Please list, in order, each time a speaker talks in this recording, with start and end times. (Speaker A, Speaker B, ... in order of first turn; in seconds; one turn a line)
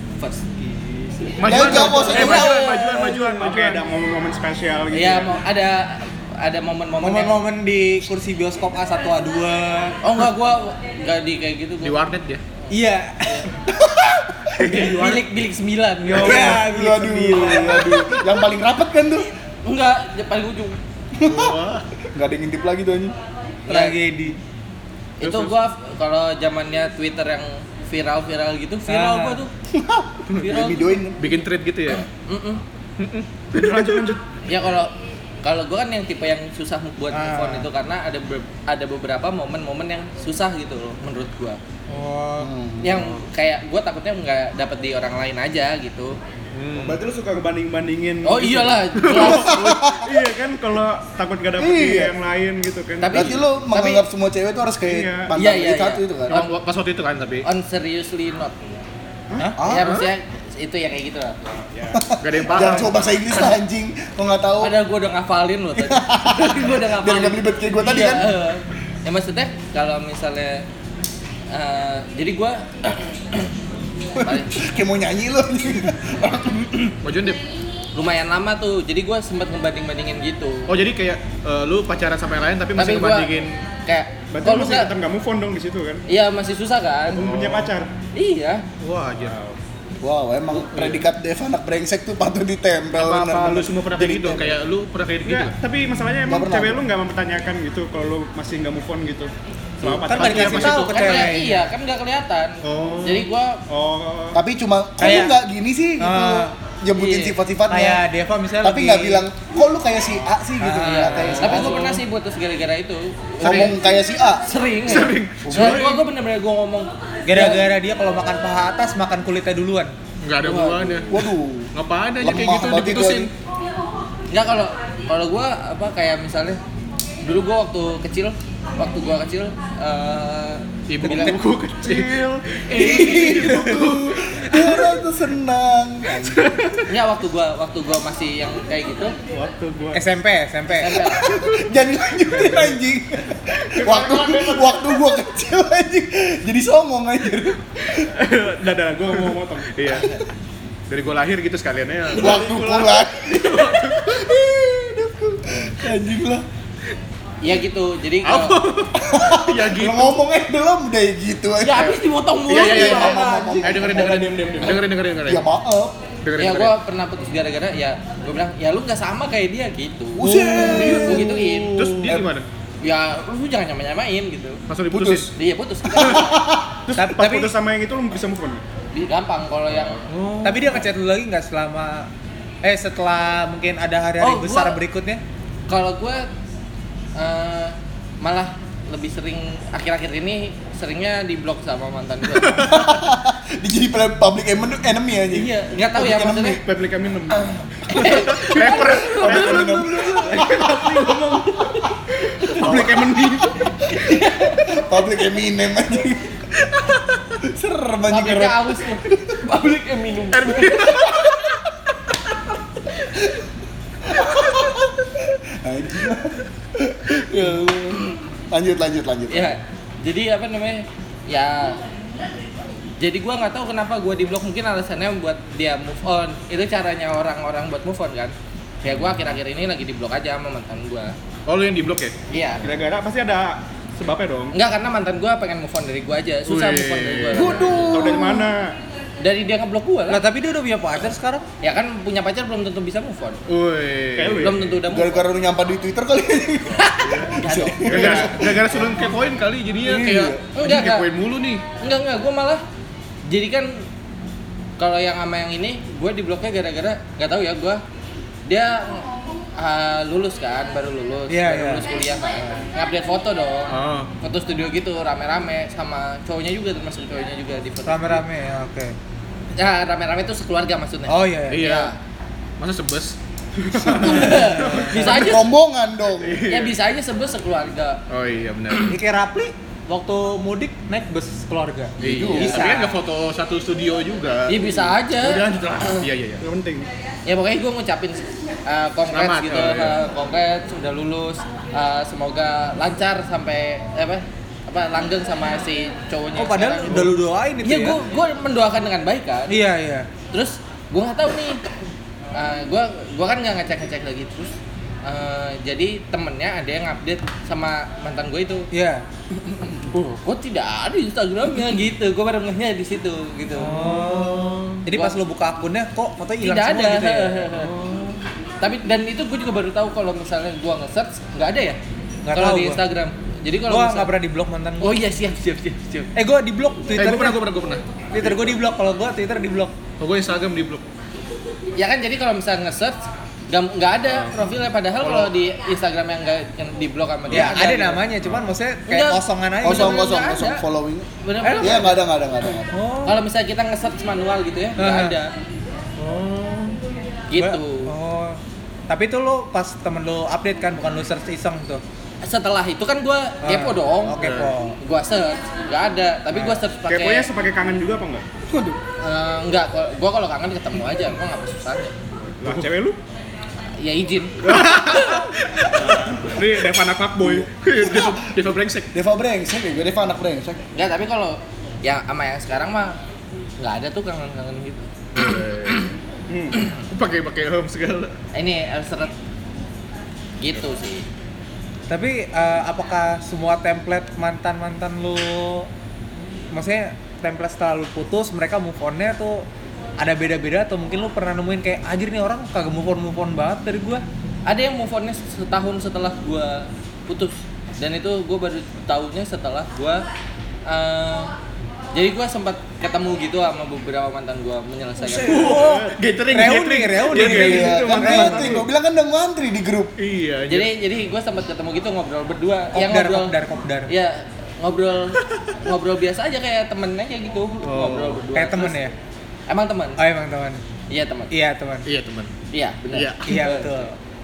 Speaker A: 0.2-0.5
Speaker B: 0.6-5.4
Speaker C: 1.4-3.8
Speaker D: 1.4-2.6
Speaker A: 1.8-3.6
Speaker A: 4.9-7.4
Speaker E: 7.0-10.0
Speaker A: 10.0-12.0
Speaker C: 11.8-12.4
Speaker A: 12.7-13.4
Speaker E: 12.7-13.5
Speaker D: 13.8-14.9
Speaker A: 14.6-16.6
Speaker C: 14.6-15.2
Speaker B: 16.1-16.7
Speaker E: 16.2-18.1
Speaker D: 16.2-19.3
Speaker A: 19.6-20.8
Speaker D: 21.1-23.1
Speaker C: 21.2-21.9
Speaker A: 23.7-24.0
Speaker E: 23.7-24.4
Speaker A: 25.2-29.5
Speaker C: 25.2-25.5
Speaker E: 28.9-29.4
Speaker D: 29.7-31.2
Speaker A: 30.3-31.0
Speaker C: 31.2-32.0
Speaker A: 31.9-32.6
Speaker C: 33.0-34.1
Speaker B: 33.5-34.2
Speaker A: 34.5-41.6
Speaker E: 37.1-37.7
Speaker E: 41.9-42.5
Speaker D: 42.4-43.1
Speaker A: 42.8-46.2
Speaker C: 46.5-47.0
Speaker B: 46.8-53.4
Speaker A: 48.2-49.8
Speaker C: 49.0-49.3
Speaker D: 49.3-50.1
Speaker D: 51.6-52.1
Speaker A: 53.0-54.0
Speaker D: 53.1-56.4
Speaker B: 54.9-55.3
Speaker A: 55.4-56.6
Speaker C: 56.3-57.5
Speaker A: 57.4-58.8
Speaker D: 59.6-59.9
Speaker A: 59.6-61.6
Speaker C: 59.8-60.1
Speaker B: 61.7-62.1
Speaker D: 61.9-64.7
Speaker C: 62.2-63.0
Speaker A: 64.6-70.7
Speaker D: 65.8-68.3
Speaker A: 71.5-73.5
Speaker D: 74.2-77.0
Speaker A: 74.2-74.5
Speaker C: 77.0-77.4
Speaker A: 77.9-80.7
Speaker C: 80.7-83.6
Speaker A: 82.8-83.3
Speaker A: 83.8-84.9
Speaker B: 84.3-86.0
Speaker A: 86.1-87.2
Speaker B: 87.1-87.9
Speaker C: 87.1-87.7
Speaker A: 88.1-88.7
Speaker C: 88.8-89.4
Speaker B: 89.2-89.6
Speaker D: 90.0-94.6
Speaker C: 90.6-91.0
Speaker C: 92.9-95.5
Speaker B: 95.2-101.2
Speaker D: 96.3-96.8
Speaker D: 99.8-100.5
Speaker E: 100.1-101.7
Speaker A: 100.2-103.6
Speaker C: 102.6-103.3
Speaker B: 103.7-104.4
Speaker D: 104.3-108.0
Speaker E: 105.0-105.4
Speaker E: 106.0-106.5
Speaker A: 106.9-107.4
Speaker E: 107.7-109.2
Speaker D: 108.6-111.8
Speaker E: 110.6-111.6
Speaker A: 110.8-113.8
Speaker C: 111.1-112.0
Speaker D: 113.4-114.5
Speaker C: 113.4-113.8
Speaker A: 114.4-116.9
Speaker C: 114.9-116.0
Speaker D: 115.4-116.0
Speaker E: 117.3-119.9
Speaker D: 117.3-117.6
Speaker C: 120.2-123.3
Speaker A: 120.4-121.1
Speaker D: 121.1-121.7
Speaker D: 122.2-123.3
Speaker A: 124.3-126.6
Speaker A: 127.2-131.4
Speaker C: 130.9-135.0
Speaker B: 131.8-132.4
Speaker D: 132.7-136.5
Speaker C: 136.2-136.9
Speaker A: 136.9-139.1
Speaker B: 139.3-140.1
Speaker E: 139.9-141.0
Speaker A: 140.7-141.2
Speaker D: 140.9-148.1
Speaker B: 143.7-145.0
Speaker B: 148.0-150.1
Speaker C: 150.9-154.0
Speaker D: 152.1-156.4
Speaker A: 157.4-158.6
Speaker C: 158.2-160.2
Speaker D: 159.0-162.0
Speaker A: 161.6-163.5
Speaker C: 162.5-165.4
Speaker D: 162.5-166.0
Speaker C: 166.2-166.8
Speaker A: 166.4-171.9
Speaker D: 170.1-171.5
Speaker C: 170.3-172.4
Speaker D: 172.0-172.3
Speaker A: 172.8-174.6
Speaker C: 174.7-175.3
Speaker D: 174.9-175.3
Speaker A: 175.3-176.6
Speaker D: 175.9-176.8
Speaker B: 176.8-178.6
Speaker E: 177.0-177.5
Speaker A: 178.9-180.1
Speaker C: 180.1-180.8
Speaker E: 180.4-182.1
Speaker E: 182.6-185.2
Speaker A: 184.2-184.8
Speaker A: 185.7-186.3
Speaker A: 187.2-192.7
Speaker D: 192.5-196.6
Speaker A: 195.3-196.6
Speaker B: 196.7-197.4
Speaker D: 197.9-201.0
Speaker A: 197.9-201.9
Speaker C: 198.0-201.3
Speaker B: 198.4-201.1
Speaker B: 202.5-203.5
Speaker C: 202.5-203.2
Speaker D: 202.5-211.5
Speaker A: 203.9-204.8
Speaker A: 208.1-211.2
Speaker C: 210.3-211.4
Speaker D: 214.1-219.6
Speaker A: 219.3-221.8
Speaker A: 223.0-231.1
Speaker C: 231.4-232.1
Speaker A: 232.3-232.7
Speaker B: 232.6-234.6
Speaker A: 234.5-238.0
Speaker C: 236.4-237.9
Speaker D: 237.3-238.5
Speaker B: 237.8-238.8
Speaker A: 239.2-240.2
Speaker E: 240.1-241.4
Speaker A: 241.6-243.4
Speaker C: 243.5-244.6
Speaker B: 244.1-244.7
Speaker A: 244.4-245.3
Speaker D: 244.9-249.0
Speaker A: 246.8-248.3
Speaker C: 247.8-251.6
Speaker B: 247.9-248.4
Speaker D: 249.8-250.4
Speaker A: 250.6-251.1
Speaker A: 251.8-252.6
Speaker A: 253.2-253.9
Speaker A: 254.8-257.8
Speaker A: 258.5-268.2
Speaker E: 261.3-261.9
Speaker C: 263.7-264.1
Speaker E: 267.9-268.9
Speaker A: 269.6-271.9
Speaker E: 271.1-271.8
Speaker C: 271.5-271.9
Speaker C: 272.6-273.2
Speaker C: 273.7-275.0
Speaker A: 273.9-275.5
Speaker E: 274.3-275.1
Speaker D: 275.0-276.5
Speaker C: 276.2-276.7
Speaker A: 276.5-278.0
Speaker C: 278.1-279.0
Speaker E: 278.8-283.0
Speaker D: 282.0-282.7
Speaker C: 282.0-286.4
Speaker A: 284.5-286.1
Speaker B: 286.4-286.9
Speaker A: 287.3-299.6
Speaker C: 289.1-290.0
Speaker E: 296.4-298.0
Speaker E: 299.5-300.1
Speaker A: 300.3-301.6
Speaker A: 302.3-308.7
Speaker E: 308.7-309.1
Speaker A: 309.8-313.8
Speaker E: 313.6-317.6
Speaker C: 313.7-314.8
Speaker A: 314.9-315.2
Speaker A: 316.4-317.7
Speaker C: 317.6-318.2
Speaker A: 318.6-321.8
Speaker E: 322.2-322.8
Speaker A: 322.3-324.1
Speaker E: 323.7-325.1
Speaker A: 324.8-326.1
Speaker E: 326.1-327.4
Speaker C: 326.9-328.3
Speaker E: 328.1-329.7
Speaker C: 330.0-330.8
Speaker A: 331.8-338.1
Speaker C: 334.1-334.4
Speaker C: 335.0-335.3
Speaker C: 337.3-337.5
Speaker E: 337.3-340.1
Speaker A: 338.9-340.6
Speaker D: 339.6-341.1
Speaker A: 341.2-342.0
Speaker E: 341.4-341.9
Speaker D: 341.6-342.7
Speaker E: 342.7-343.3
Speaker A: 343.1-345.3
Speaker E: 344.8-345.1
Speaker C: 346.0-346.8
Speaker A: 347.3-347.9
Speaker E: 347.4-351.8
Speaker A: 352.2-354.2
Speaker E: 353.4-354.8
Speaker C: 354.1-354.5
Speaker A: 354.8-357.3
Speaker E: 356.3-356.6
Speaker B: 356.9-358.2
Speaker A: 359.0-361.9
Speaker B: 362.4-363.0
Speaker A: 363.8-365.2
Speaker C: 364.4-365.9
Speaker B: 364.5-364.7
Speaker B: 365.8-367.5
Speaker D: 367.2-368.3
Speaker C: 367.5-368.9
Speaker D: 368.9-370.6
Speaker A: 370.8-373.0
Speaker A: 373.6-374.9
Speaker C: 375.1-375.9
Speaker B: 376.3-376.6
Speaker C: 376.6-378.1
Speaker A: 378.3-379.1
Speaker A: 380.4-381.1
Speaker E: 381.9-385.7
Speaker E: 386.5-389.4
Speaker E: 390.0-394.0
Speaker A: 394.5-400.1
Speaker A: 400.6-401.3
Speaker A: 401.9-405.4
Speaker C: 405.2-408.6
Speaker E: 405.2-408.5
Speaker B: 405.3-405.9
Speaker B: 407.1-408.7
Speaker D: 407.2-409.9
Speaker C: 410.0-410.7
Speaker A: 410.5-413.4
Speaker E: 412.7-413.9
Speaker A: 413.9-418.8
Speaker C: 417.6-418.3
Speaker E: 418.3-418.9
Speaker A: 419.5-420.0
Speaker E: 420.0-420.6
Speaker A: 420.9-421.3
Speaker E: 421.3-421.9
Speaker C: 421.9-422.3
Speaker A: 422.5-423.9
Speaker C: 422.9-423.3
Speaker E: 423.2-423.9